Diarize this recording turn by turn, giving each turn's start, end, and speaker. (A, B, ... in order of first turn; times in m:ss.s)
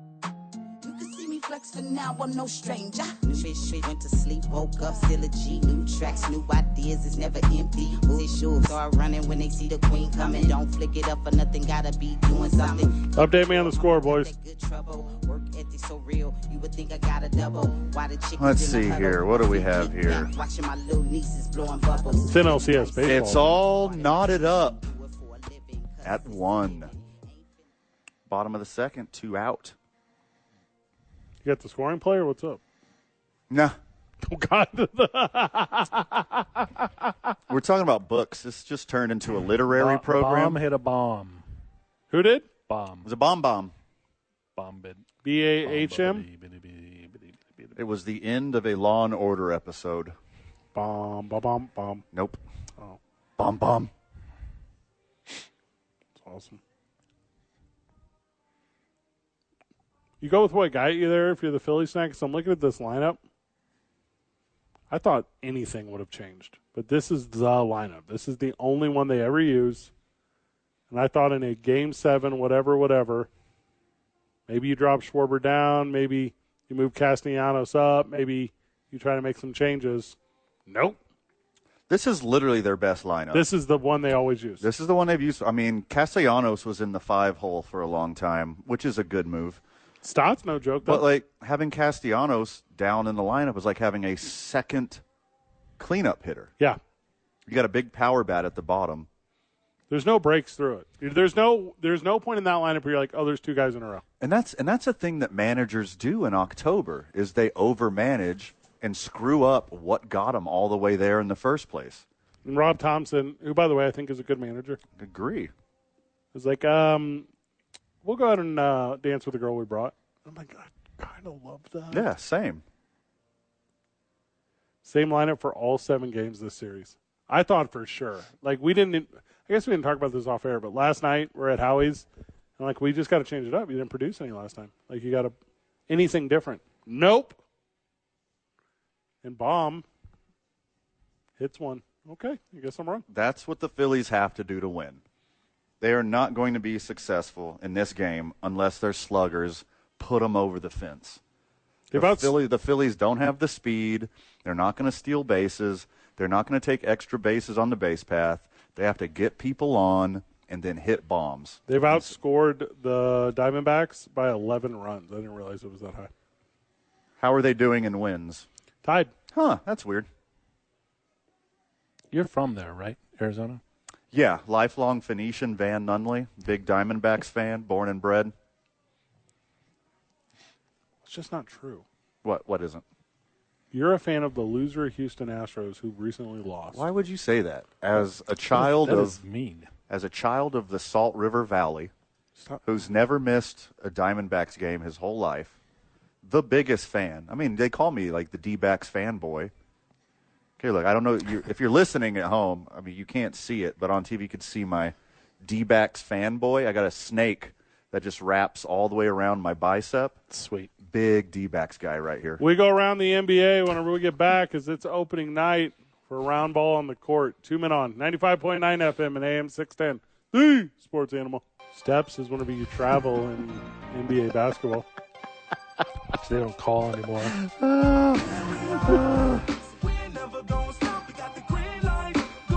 0:00.8-0:27.7 A
0:13.1-0:14.3 B
0:18.4-0:20.3 C
0:22.3-0:23.5 B
0:23.0-0:24.9 C
0:26.0-0:26.9 C
0:28.3-0:29.8 C
0:31.4-0:32.6 B
0:33.5-0:33.8 C
0:34.2-0:37.1 B
0:37.5-0:40.6 C
0:39.7-0:41.4 D
0:42.1-0:42.5 B
0:42.7-0:43.1 D
0:43.0-0:43.7 C
0:44.6-0:45.1 D
0:45.2-0:46.2 B
0:45.6-0:47.8 D
0:47.8-0:50.2 C
0:50.7-0:52.0 B
0:52.1-0:52.4 C
0:53.4-0:53.9 C
0:56.2-0:56.6 B
1:00.2-1:03.2 B
1:04.9-1:09.9 B
1:10.9-1:13.3 B
1:14.5-1:20.2 B
1:20.7-1:21.0 B
1:21.9-1:23.4 C
1:23.3-1:24.7 B
1:24.6-1:29.6 C
1:30.0-1:31.1 B
1:30.8-1:35.0 C
1:35.8-1:36.5 C
1:37.5-1:39.1 C
1:39.9-1:44.0 B
1:44.2-1:52.0 C
1:52.4-1:54.8 B
1:55.0-1:55.5 C
1:56.3-1:57.3 B
1:58.0-2:02.1 B
2:01.9-2:02.6 C
2:04.8-2:12.1 B
2:12.6-2:15.3 B
2:15.9-2:17.4 B
2:19.2-2:19.8 B
2:21.4-2:23.0 B
2:23.1-2:25.0 C
2:25.8-2:31.2 C
2:31.9-2:32.3 B
2:31.9-2:42.1 C
2:41.7-2:46.1 B
2:47.2-2:48.4 C
2:48.8-2:49.1 B
2:49.3-2:50.1 C
2:52.1-2:53.6 D
2:54.1-2:58.3 C
3:01.0-3:01.8 B
3:02.2-3:02.8 C
3:03.7-3:06.8 B
3:06.7-3:09.2 C
3:08.5-3:09.7 D
3:09.9-3:11.9 C
3:12.4-3:12.6 B
3:12.6-3:15.6 C
3:16.2-3:19.5 C
3:20.6-3:30.2 C
3:30.3-3:30.7 D
3:30.8-3:32.4 C
3:32.4-3:44.9 B
3:46.1-3:47.4 D
3:47.4-3:49.5 C
3:50.1-3:52.2 B